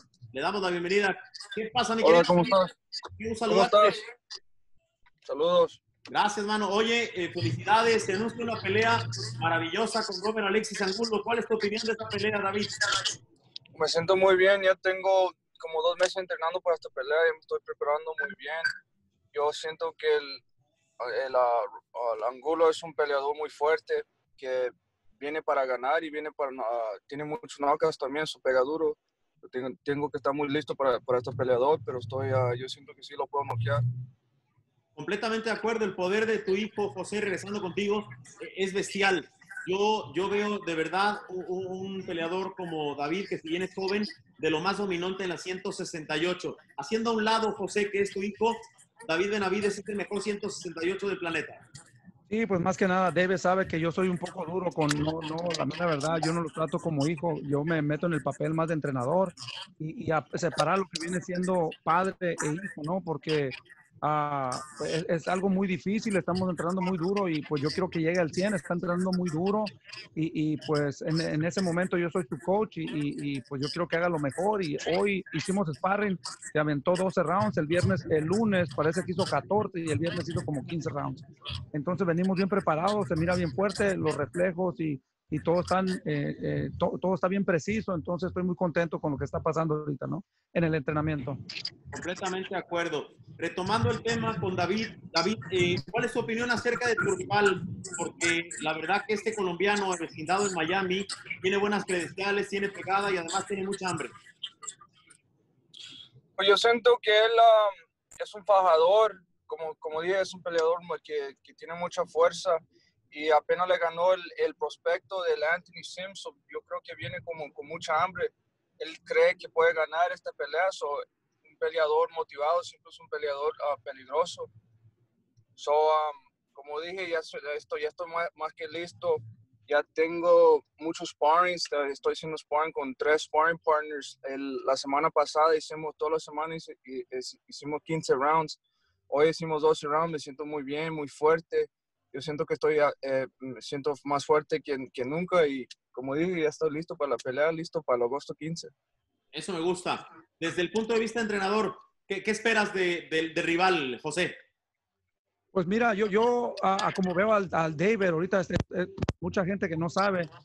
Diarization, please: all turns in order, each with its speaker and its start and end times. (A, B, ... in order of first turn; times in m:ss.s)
0:00.3-0:02.6 A
0:02.0-0:02.7 B
0:03.2-0:04.0 A
0:03.5-0:03.9 B
0:05.2-0:05.8 B
0:06.1-0:12.8 A
0:13.8-0:18.6 B
0:19.3-0:20.4 B
0:21.0-0:33.8 B
0:35.0-0:51.6 A
0:52.3-1:31.4 C
1:31.9-1:44.1 A
1:46.4-1:52.6 B
1:53.1-2:04.5 B
2:05.6-2:18.6 B
2:19.1-2:28.7 B
2:29.3-2:34.4 A
2:35.5-2:40.3 C